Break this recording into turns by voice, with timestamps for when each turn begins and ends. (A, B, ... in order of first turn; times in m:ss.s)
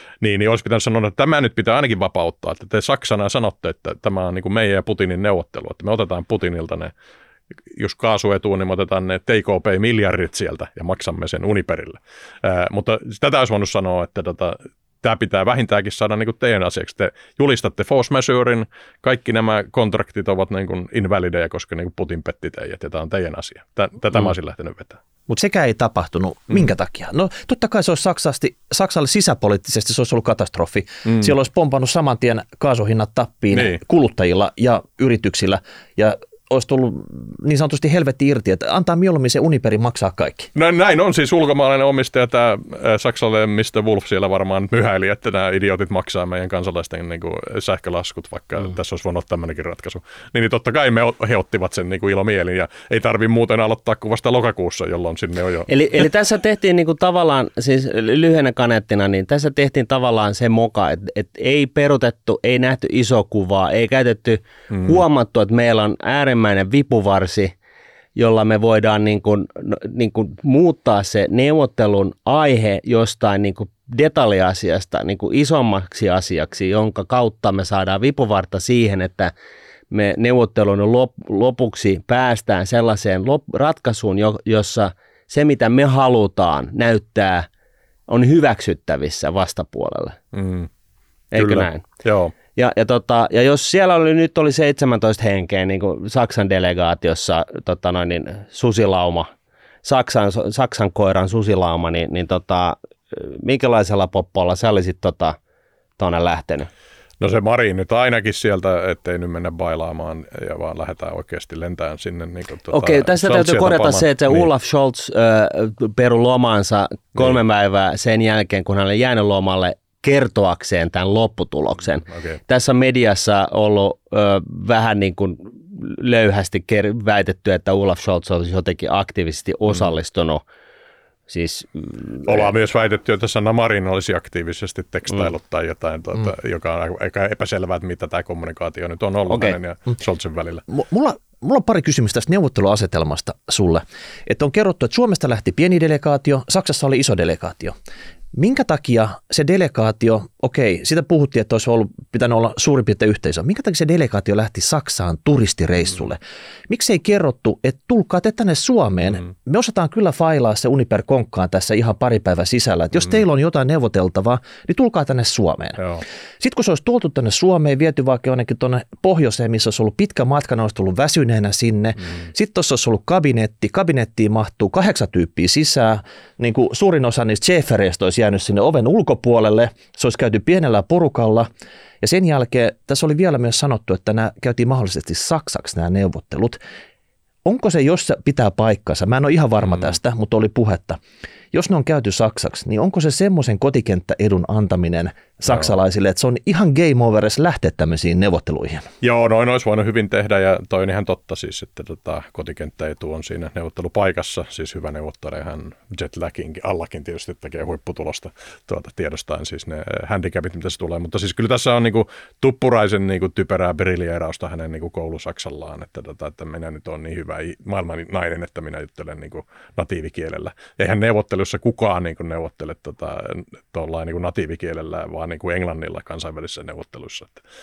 0:00.2-0:06.9 A
0:07.7-0:25.0 A
0:25.3-0:40.5 B
0:31.0-0:31.3 A
0:33.5-0:33.8 A
0:40.5-0:55.7 A
0:55.7-1:07.5 C
1:04.7-1:05.0 A
1:08.1-1:19.3 C
1:19.9-1:27.5 C
1:28.1-1:30.2 C
1:30.3-1:30.7 A
1:31.3-1:31.8 C
1:31.3-1:32.3 A
1:32.5-1:39.3 C
1:39.8-1:45.4 C
1:46.0-1:46.7 C
1:47.2-1:54.5 A
1:52.7-2:10.4 C
2:02.1-2:02.4 A
2:11.3-2:12.5 C
2:12.2-2:20.6 A
2:19.3-2:19.6 C
2:20.7-2:27.7 B
2:28.3-2:45.8 B
2:46.4-3:01.5 B
3:02.0-3:06.6 B
3:07.4-3:11.0 B
3:11.5-3:18.9 B
3:19.0-3:47.4 A